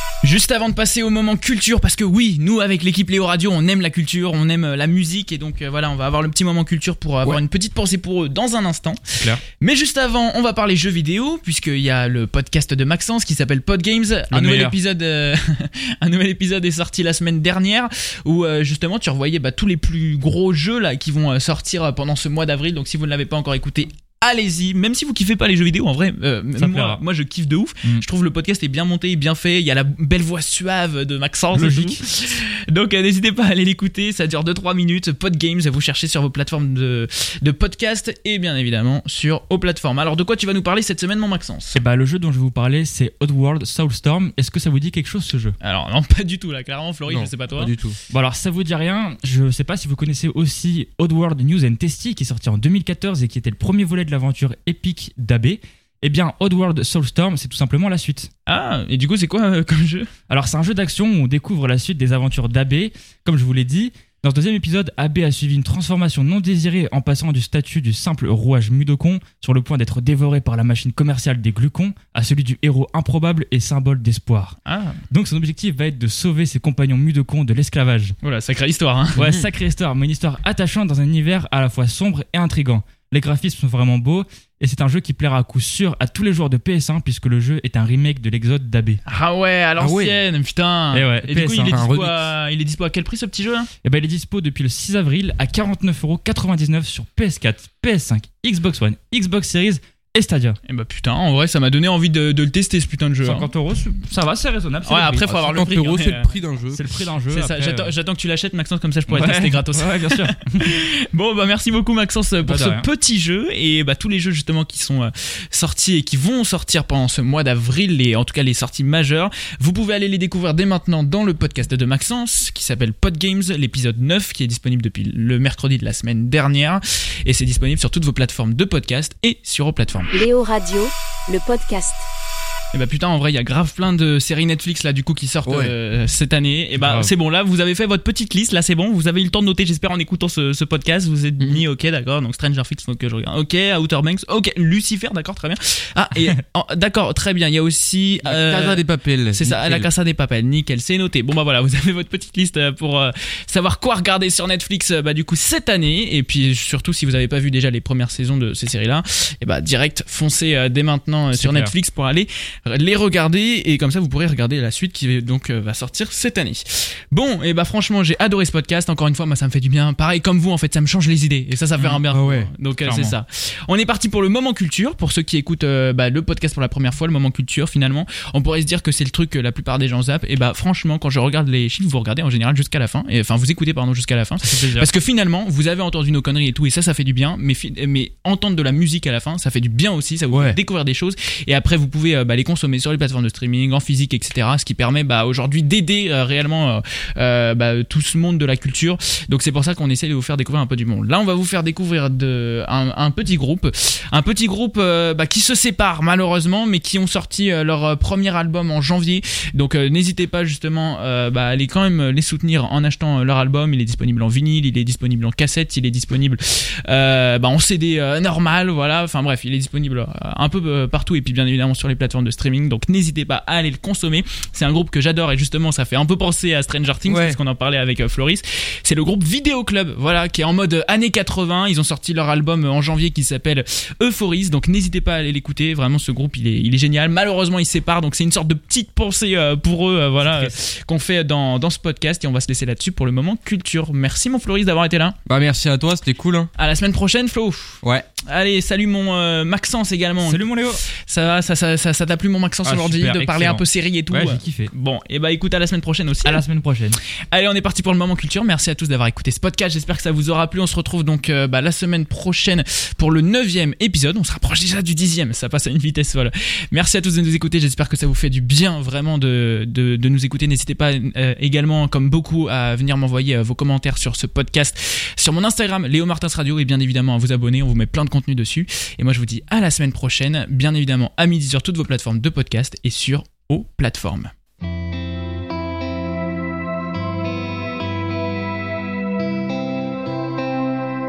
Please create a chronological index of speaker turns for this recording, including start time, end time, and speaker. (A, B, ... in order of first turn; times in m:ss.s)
0:00.2-0:41.8 A
0:09.1-0:09.4 B
0:14.3-0:14.8 B
0:26.6-0:27.0 B
0:31.5-0:32.0 B
0:41.7-0:45.6 B
0:45.6-0:47.7 A
0:47.1-0:48.0 C
0:48.1-0:58.3 B
0:58.5-1:00.1 A
1:00.3-1:14.6 B
1:14.7-1:15.0 A
1:15.1-1:18.2 B
1:18.2-1:19.3 A
1:19.2-1:29.0 B
1:29.1-1:33.7 A
1:29.8-1:30.2 C
1:30.9-1:31.8 B
1:31.7-1:32.2 C
1:33.8-1:40.6 B
1:40.7-1:43.5 A
1:43.2-1:45.3 B
1:44.9-1:46.3 A
1:45.3-1:46.8 C
1:46.7-1:47.9 B
1:47.3-2:10.1 A
1:49.1-1:50.7 B
1:52.4-1:52.9 B
2:10.1-2:12.1 D
2:12.7-2:28.8 A
2:15.4-2:15.7 C
2:16.8-2:17.1 B
2:28.2-2:29.9 C
2:29.3-4:05.2 A
2:41.3-2:41.7 B
2:51.8-2:52.0 B
2:52.1-2:52.5 C
2:52.8-2:53.2 B
3:04.4-3:04.9 B
3:10.3-3:10.6 C
3:47.1-3:47.4 C
4:00.2-4:00.6 B
4:05.3-4:06.5 C
4:06.6-4:16.4 A
4:10.2-4:10.8 B
4:12.6-4:14.7 B
4:16.2-4:17.0 B
4:17.3-4:44.3 A